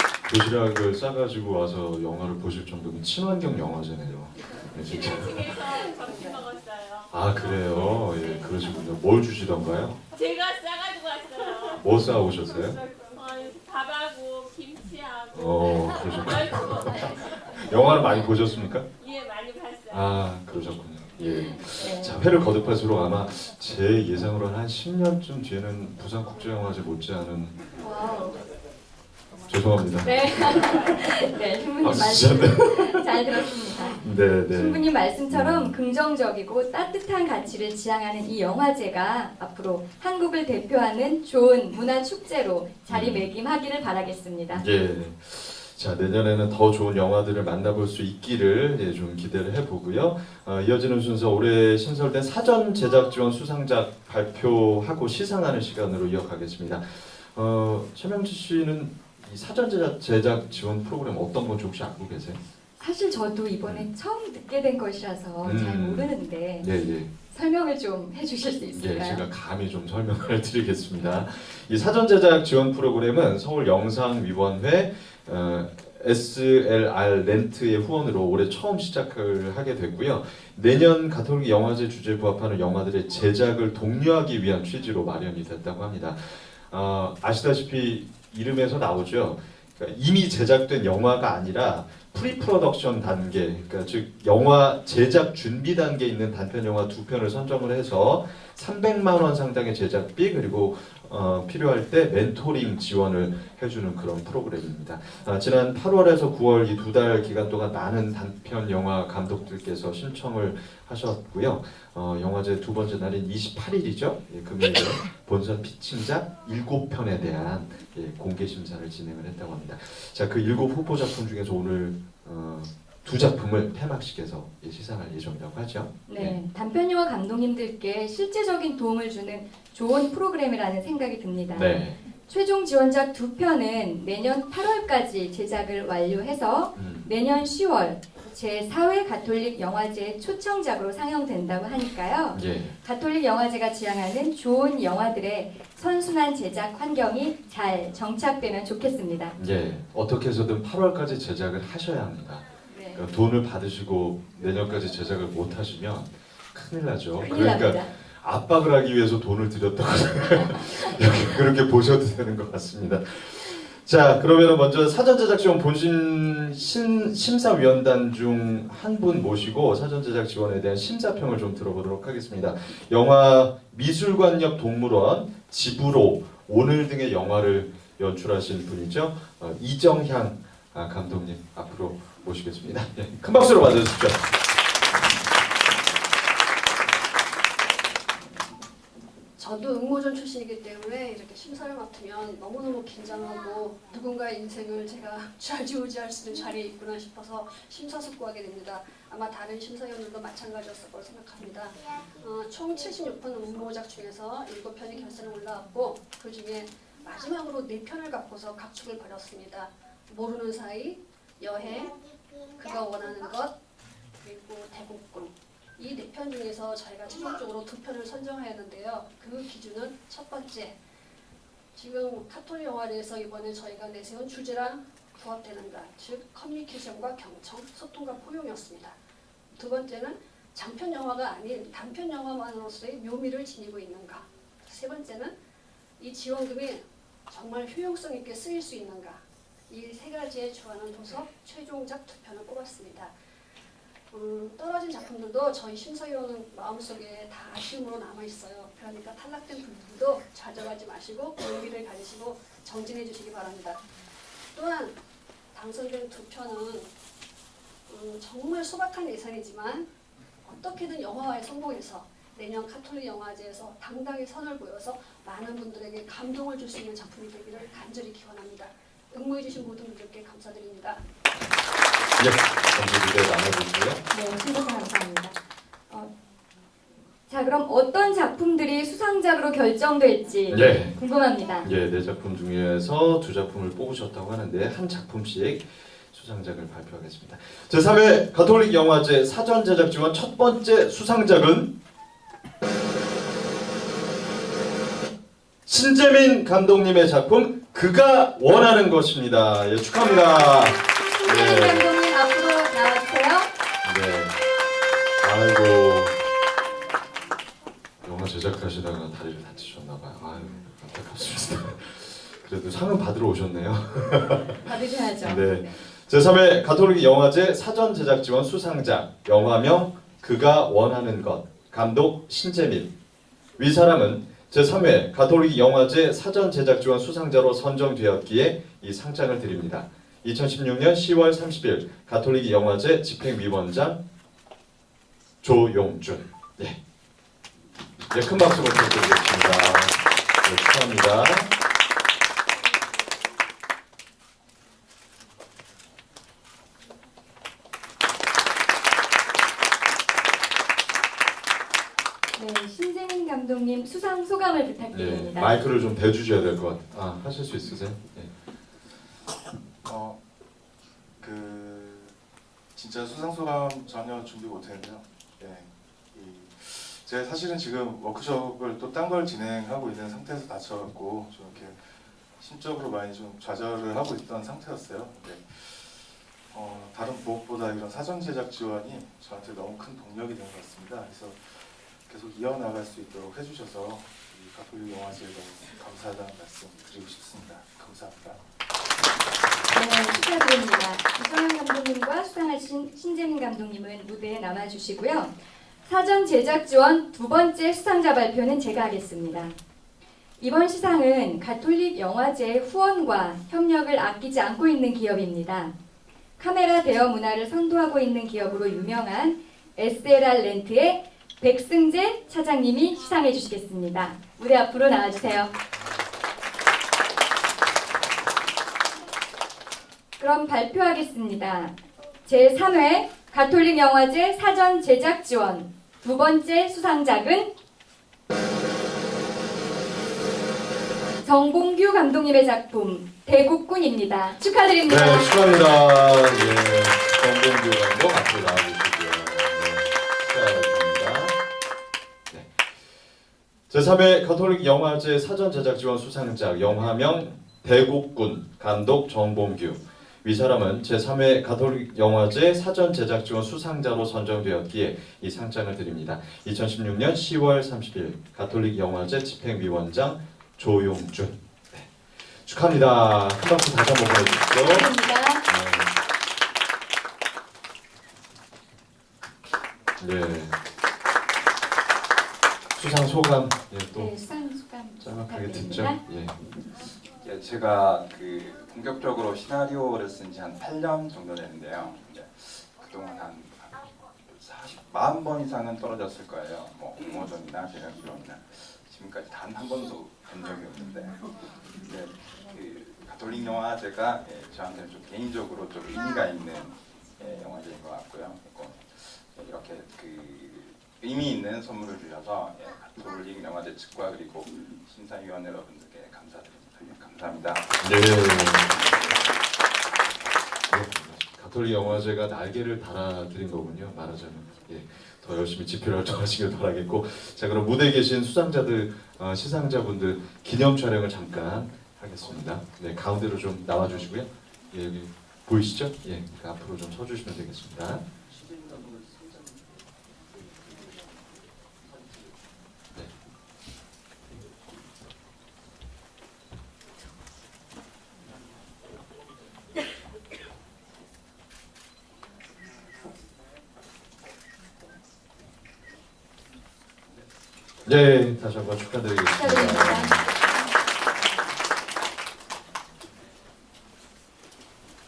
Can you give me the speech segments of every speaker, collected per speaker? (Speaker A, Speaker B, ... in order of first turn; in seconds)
Speaker A: 0.3-5.7, 7.1-10.0, 11.8-12.8, 15.3-18.9, 19.9-27.6, 29.5-30.9, 31.8-33.2, 34.0-35.8, 42.9-43.3, 44.5-62.4, 65.4-67.1, 68.7-126.4, 131.5-132.0, 136.8-137.1, 142.3-142.8, 149.4-184.3, 272.2-274.0, 280.5-281.0, 281.6-291.7, 295.6-301.9, 303.8-304.4, 305.2-306.1, 308.0-314.6, 315.2-322.9, 323.6-334.0, 335.4-336.8, 338.1-341.5, 354.9-358.3, 434.9-441.4, 442.3-442.5, 443.7-464.9, 465.5-465.9, 470.0-470.5, 472.8-474.1, 475.0-476.4, 507.8-508.8, 510.7-528.0, 547.8-550.3
Speaker B: 4.6-8.1, 10.1-18.4, 19.0-20.3
Speaker C: 21.6-22.2, 27.8-28.4, 30.0-44.6, 62.8-66.7, 67.3-69.2, 126.1-131.7, 132.3-149.4, 152.7-153.0, 157.2-157.9, 274.1-275.4, 277.3-281.7, 300.8-303.5, 314.6-315.8, 352.4-355.5, 389.7-395.3, 395.9-399.6, 400.4-405.7, 406.4-415.5, 420.2-427.5, 431.2-435.6, 464.4-465.4, 473.9-476.0, 549.3-550.2
Speaker D: 189.4-212.0, 212.5-213.6, 214.2-220.8, 221.8-229.0, 229.5-235.3, 236.0-243.1, 244.1-253.8, 254.5-255.0, 255.5-256.9, 257.9-259.9, 260.4-271.0
Speaker E: 359.8-360.2, 361.2-362.1, 362.8-388.4
Speaker F: 477.1-507.8